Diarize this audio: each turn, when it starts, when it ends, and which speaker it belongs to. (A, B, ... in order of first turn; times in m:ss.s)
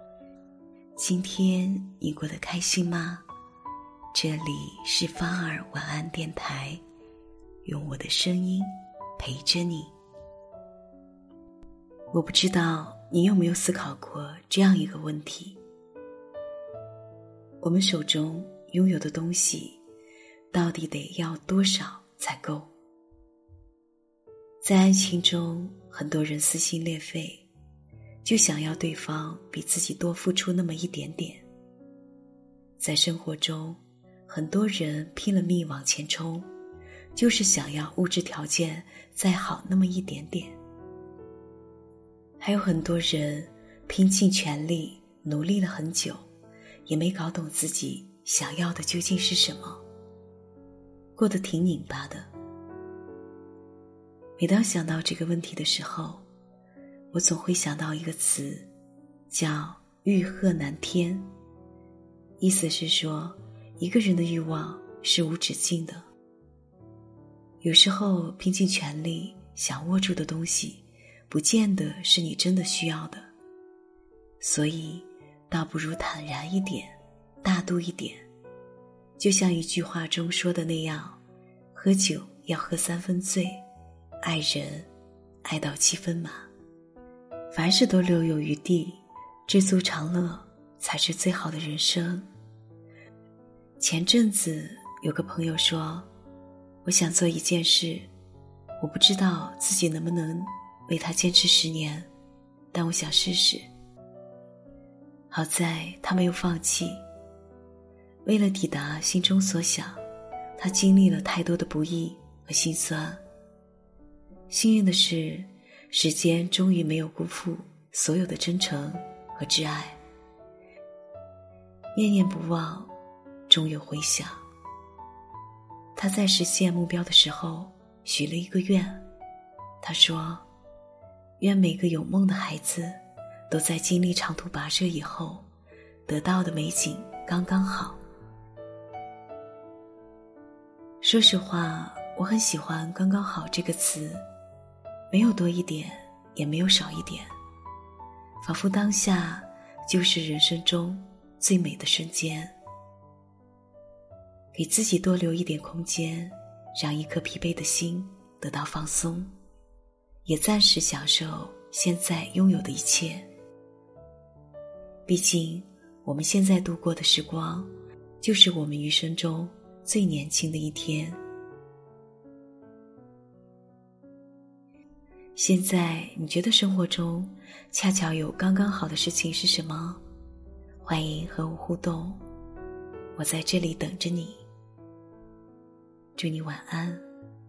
0:01.0-0:03.2 A
0:04.1-0:06.8 A
0:07.6-0:09.9 A
0:12.1-0:15.6 A
0:17.6-0:19.8 A
0:20.5-0:22.7 A
0:24.6-0:27.5 A
0:28.2-0:31.4 A
0:32.8-0:36.5 A
0:37.2-0:40.6 A
0:42.4-0:46.3 A
0:46.9-0:49.8 A
0:51.2-0:52.3 A
0:54.4-0:56.2 A
0:57.1-0:58.7 A
0:59.3-1:01.3 A
1:02.4-1:06.0 A
1:07.6-1:13.3 A
1:14.4-1:18.2 A
1:19.2-1:21.2 A
1:21.7-1:23.6 A
1:24.2-1:24.9 A
1:25.4-1:26.5 A
1:27.5-1:32.3 A
1:33.8-1:36.1 A
1:36.8-1:38.1 A
1:38.8-1:42.1 A
1:42.7-1:43.7 A
1:45.3-1:47.0 A
1:48.2-1:50.0 A
1:50.6-1:53.2 A
1:54.5-2:00.0 A
2:01.9-2:02.9 A
2:03.5-2:04.4 A
2:06.0-2:09.0 A
2:09.8-2:10.5 A
2:11.4-2:15.5 A
2:16.1-2:18.0 A
2:21.0-2:24.2 A
2:25.1-2:27.3 A
2:28.4-2:32.6 A
2:34.5-2:39.3 A
2:40.2-2:43.3 A
2:45.1-2:47.7 A
2:48.2-2:51.2 A
2:55.4-3:00.0 A
3:00.8-3:02.2 A
3:03.2-3:04.4 A
3:06.2-3:07.0 A